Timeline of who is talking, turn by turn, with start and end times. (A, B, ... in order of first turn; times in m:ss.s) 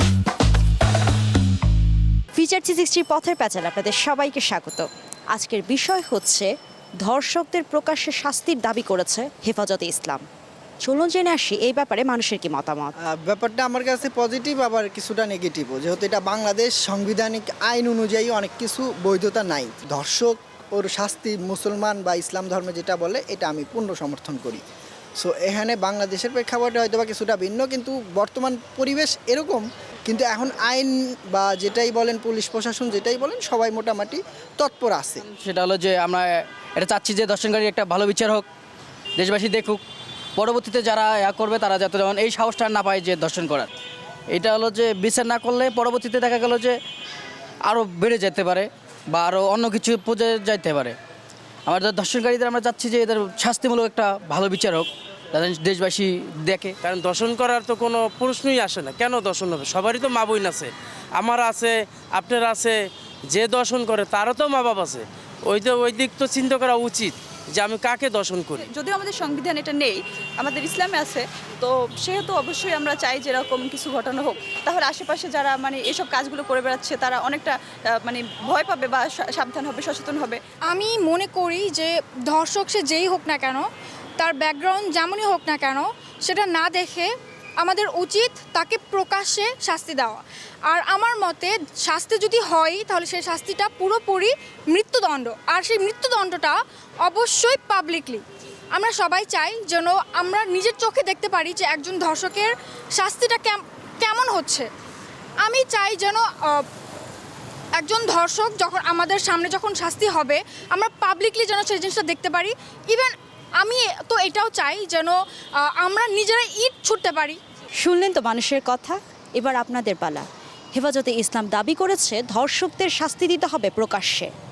0:02.4-0:06.5 A
0:07.0-0:10.2 A
0:10.8-0:12.9 A
0:13.0-0:24.6 B
0:25.2-0:35.2 B
0:35.4-0:38.4 C
0:39.2-0:39.8 C
0:40.4-0:43.7 C
0:44.3-0:46.7 C
0:47.7-0:51.0 C
0:51.6-0:56.7 C
0:56.8-1:02.8 D
1:03.3-1:08.6 D
1:08.7-1:20.4 E
1:20.7-1:23.7 F
1:24.2-1:27.1 F
1:27.6-1:30.2 F
1:30.7-1:38.2 F
1:38.7-1:44.7 F
1:45.4-1:46.6 F
1:47.8-1:57.4 F
1:57.8-2:04.3 A